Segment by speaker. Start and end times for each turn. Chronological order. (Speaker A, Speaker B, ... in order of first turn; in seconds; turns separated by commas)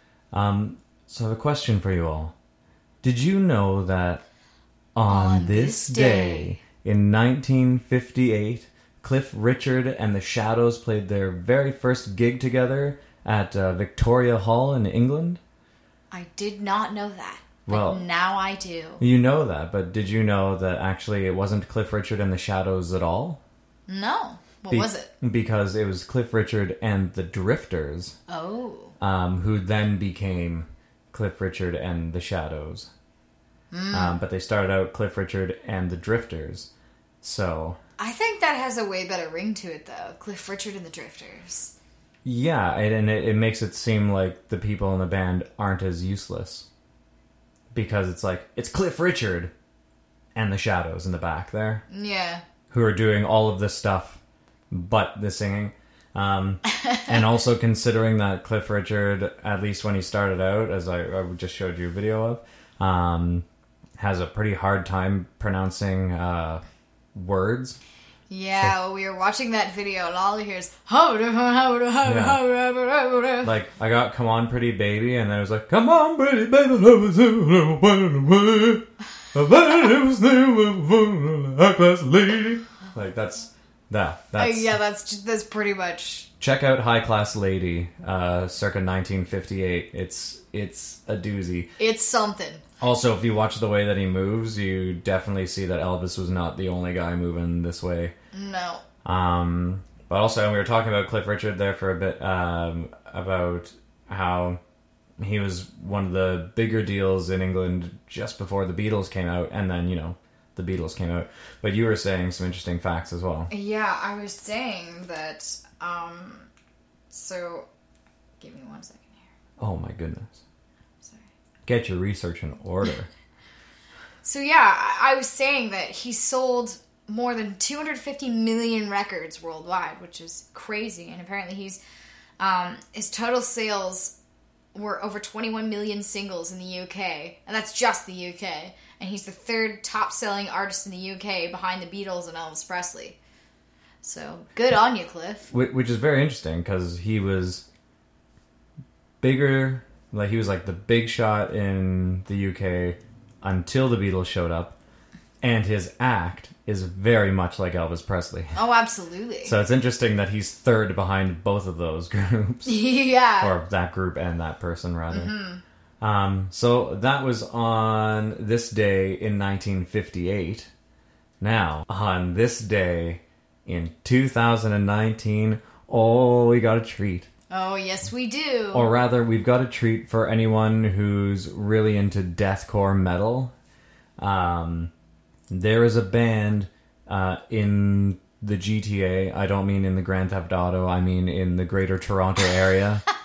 Speaker A: 0.3-2.3, Speaker A: 3.0-4.2, Speaker A: 4.9-15.4, Speaker B: 5.0-6.6, Speaker B: 16.1-19.0, Speaker A: 17.7-18.0, Speaker A: 19.0-23.4, Speaker B: 23.9-25.1, Speaker A: 24.7-28.1, Speaker B: 28.3-28.9, Speaker A: 29.0-32.9, Speaker B: 33.7-34.2, Speaker A: 33.9-36.7, Speaker A: 37.2-37.8, Speaker B: 38.0-41.7, Speaker A: 42.2-46.7, Speaker A: 47.7-49.5, Speaker A: 50.3-51.8, Speaker B: 51.9-52.4, Speaker A: 52.7-54.2, Speaker A: 54.7-63.4, Speaker A: 64.0-67.8, Speaker B: 68.3-73.5, Speaker A: 72.0-72.4, Speaker A: 73.4-84.7, Speaker B: 84.4-86.3, Speaker A: 86.4-91.7, Speaker B: 91.8-92.6, Speaker A: 92.8-98.1, Speaker B: 98.3-98.8, Speaker A: 99.0-104.6, Speaker A: 105.2-113.5, Speaker B: 113.5-116.5, Speaker B: 117.1-117.7, Speaker B: 118.4-119.2, Speaker A: 119.6-120.4, Speaker B: 121.0-121.3, Speaker A: 121.7-123.1, Speaker B: 124.2-131.8, Speaker B: 132.4-134.1, Speaker B: 134.7-143.2, Speaker B: 144.0-145.5, Speaker A: 145.5-147.7, Speaker A: 149.2-154.8, Speaker A: 155.4-158.6, Speaker B: 158.5-159.5, Speaker A: 159.4-162.8, Speaker B: 162.7-163.5, Speaker A: 163.4-165.3, Speaker B: 165.1-165.6, Speaker A: 166.0-170.7, Speaker A: 171.4-177.3, Speaker B: 177.5-178.9, Speaker A: 178.7-183.5, Speaker A: 184.2-184.9, Speaker A: 185.5-193.0